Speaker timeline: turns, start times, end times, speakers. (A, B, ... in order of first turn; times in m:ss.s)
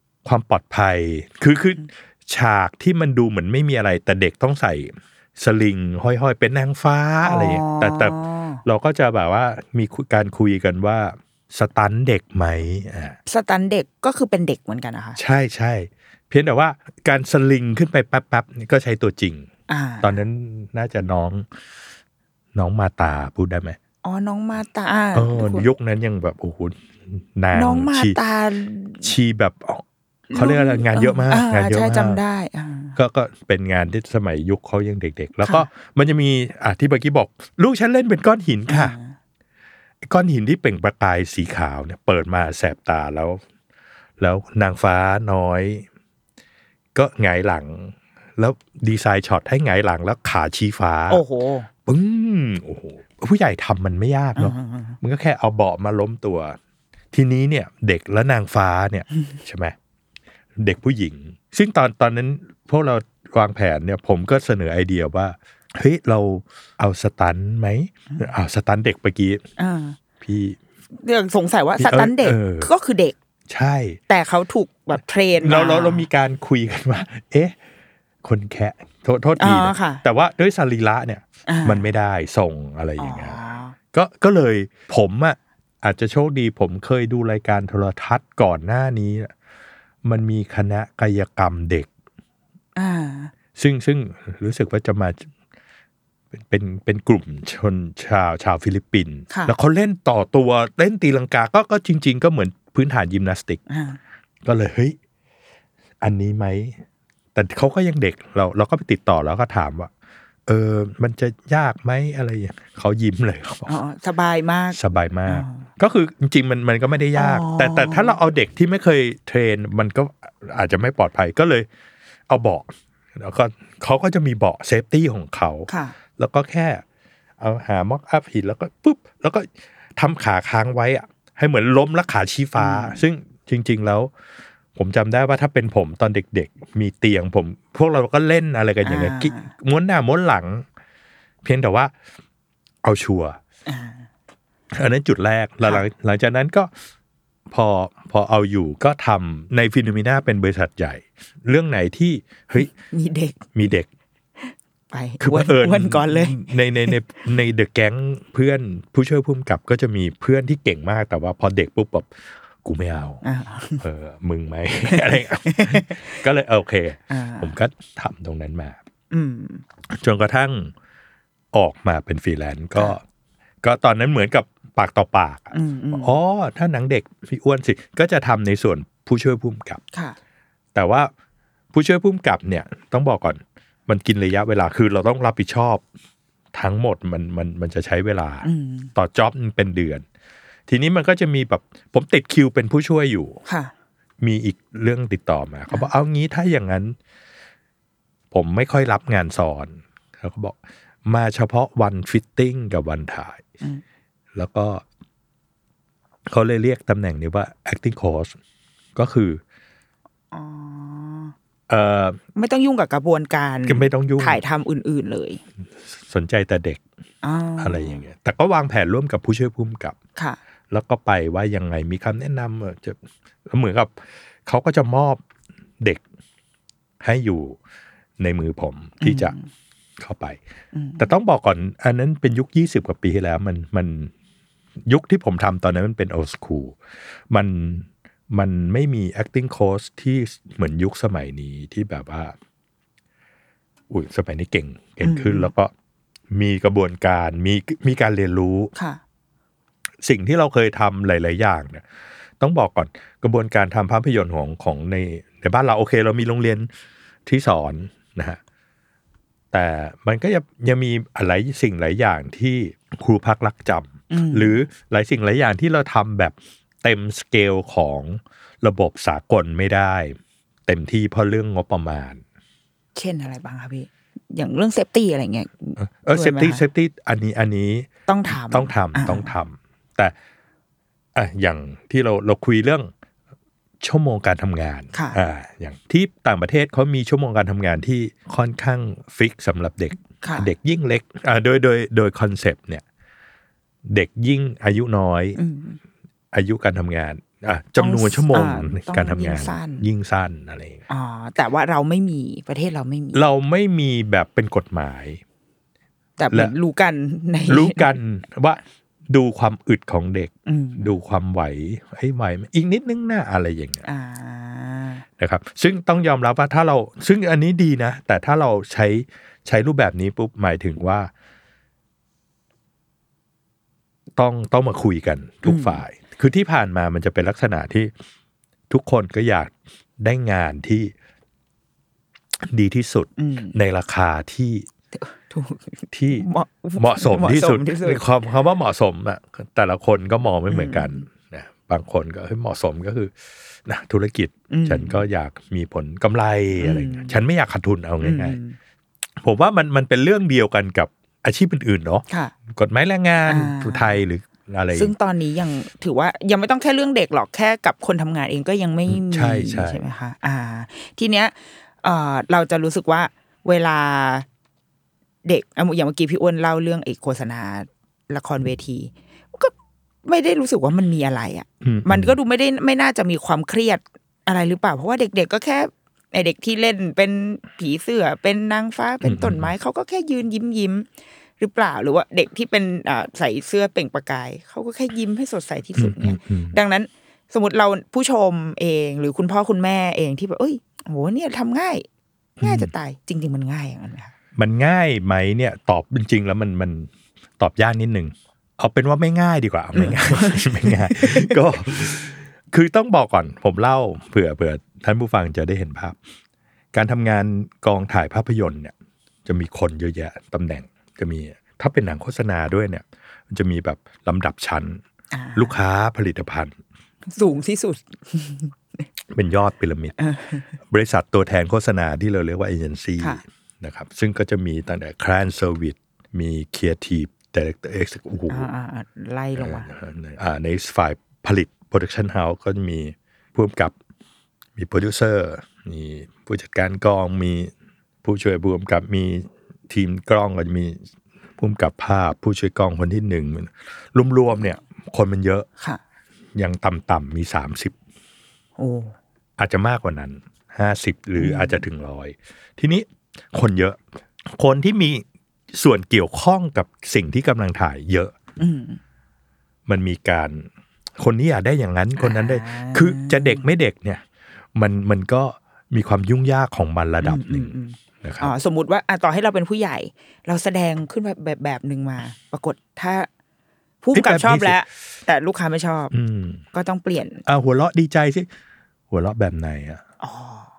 0:00.2-0:13.2 A
0:07.2-0:08.6 B
0:13.3-0:15.2 B
0:15.2-0:19.5 A
0:19.7-0:20.2 B
0:20.0-0:21.5 A
0:22.5-0:23.8 A
0:24.0-0:25.7 B
0:25.1-0:28.2 A
0:27.5-0:29.1 B
0:29.0-0:32.2 A
0:30.3-0:33.0 B
0:32.9-0:38.9 A
0:38.7-0:39.1 B
0:40.0-0:43.4 A
0:44.2-0:45.8 A
0:46.9-0:51.2 A
0:51.1-0:51.7 B
0:51.8-0:56.6 A
0:54.4-0:55.0 B
0:57.1-0:59.7 A
1:00.6-1:09.4 A
1:09.6-1:10.0 B
1:10.2-1:10.6 A
1:11.0-1:13.1 B
1:11.8-1:12.7 A
1:13.5-1:14.0 A
1:14.1-1:16.0 B
1:15.4-1:17.6 A
1:18.2-1:23.4 A
1:19.4-1:20.0 B
1:21.5-1:21.8 B
1:23.0-1:23.7 B
1:23.9-1:29.3 A
1:30.0-1:31.9 A
1:32.8-1:33.3 B
1:33.6-1:35.3 A
1:36.3-1:43.6 A
1:39.3-1:39.5 B
1:43.7-1:44.0 B
1:44.4-1:45.0 A
1:46.0-1:46.8 A
1:47.3-1:49.9 A
1:50.4-1:53.7 A
1:53.6-1:55.6 B
1:54.7-2:01.7 A
1:57.1-1:58.2 B
2:02.3-2:06.8 A
2:05.7-2:05.9 B
2:07.4-2:14.1 A
2:12.6-2:13.0 B
2:14.8-2:20.6 A
2:18.8-2:19.5 B
2:21.4-2:21.9 A
2:22.8-2:23.4 A
2:23.7-2:24.0 B
2:24.7-2:26.7 A
2:27.5-2:32.7 A
2:32.6-2:33.4 B
2:33.5-2:33.9 A
2:34.4-2:37.0 B
2:35.2-2:42.1 A
2:42.6-2:43.2 A
2:43.2-2:43.8 B
2:43.8-2:48.8 A
2:44.9-2:46.2 B
2:47.1-2:47.5 B
2:49.1-2:49.6 B
2:49.9-2:50.7 A
2:51.5-2:53.0 A
2:53.6-2:59.8 A
2:55.5-2:56.1 B
3:00.7-3:01.1 A
3:01.7-3:05.8 A
3:06.5-3:10.0 A
3:08.4-3:08.9 B
3:10.7-3:13.4 A
3:13.5-3:13.7 B
3:14.2-3:17.0 A
3:18.3-3:23.4 A
3:24.3-3:24.8 A
3:26.3-3:28.4 A
3:28.9-3:29.4 A
3:30.3-3:31.3 B
3:31.7-3:32.2 A
3:32.4-3:35.4 B
3:33.6-3:34.4 A
3:36.0-3:36.8 A
3:37.2-3:38.0 B
3:37.6-3:40.0 A
3:40.7-3:45.2 A
3:47.0-3:47.6 A
3:48.2-3:49.3 A
3:49.0-3:49.5 B
3:50.0-3:50.4 A
3:50.7-3:51.1 B
3:51.0-3:54.1 A
3:54.8-3:56.8 A
3:57.3-4:02.3 A
4:03.9-4:05.7 A
4:05.0-4:05.5 B
4:06.3-4:08.7 A
4:08.7-4:09.0 B
4:10.0-4:11.8 A
4:12.4-4:16.7 A
4:17.2-4:18.4 A
4:19.5-4:32.2 A
4:24.1-4:24.6 B
4:32.9-4:36.6 B
4:35.8-4:40.1 A
4:38.1-4:39.3 B
4:41.1-4:42.9 A
4:43.8-4:52.8 A
4:50.2-4:50.5 B
4:53.9-4:55.4 A
4:55.4-4:55.8 B
4:56.3-5:00.8 A
4:57.8-4:59.8 B
5:00.9-5:03.2 B
5:03.1-5:05.2 A
5:06.2-5:07.9 B
5:07.5-5:13.8 A
5:10.5-5:10.9 B
5:13.8-5:15.0 B
5:15.2-5:21.1 A
5:24.2-5:27.9 A
5:25.4-5:25.8 B
5:28.7-5:30.9 A
5:32.4-5:34.7 A
5:33.2-5:33.6 B
5:34.9-5:38.0 B
5:35.9-5:43.1 A
5:40.5-5:41.0 B
5:43.6-5:48.4 A
5:44.5-5:45.0 B
5:46.6-5:47.2 B
5:48.0-5:48.6 B
5:49.2-5:54.9 A
5:53.3-5:54.0 B
5:54.7-6:04.2 B
5:58.9-5:59.8 A
6:05.2-6:09.5 B
6:10.0-6:20.8 B
6:11.6-6:12.2 A
6:19.0-6:19.5 A
6:21.4-6:31.9 B
6:25.8-6:26.6 A
6:32.4-6:32.7 A
6:32.4-6:34.1 B
6:34.4-6:46.0 A
6:39.7-6:41.4 B
6:46.7-6:48.7 A
6:49.2-6:54.8 A
6:55.1-6:55.6 B
6:55.4-6:56.6 A
6:57.1-6:58.8 B
6:59.1-7:00.0 A
7:00.0-7:00.5 B
7:00.7-7:08.5 A
7:08.3-7:09.7 B
7:09.4-7:13.7 A
7:14.6-7:17.5 A
7:18.0-7:20.8 A
7:21.4-7:25.5 A
7:26.3-7:27.7 A
7:28.6-7:28.9 B
7:29.4-7:38.1 A
7:31.2-7:31.6 B
7:38.4-7:38.8 B
7:39.6-7:44.0 A
7:42.0-7:43.5 B
7:44.5-7:48.3 A
7:47.0-7:53.1 B
7:53.8-7:55.9 B
7:53.9-7:54.6 A
7:55.9-7:56.4 A
7:56.5-7:57.2 B
7:57.2-7:58.3 A
7:58.9-7:59.8 A
8:00.0-8:00.5 B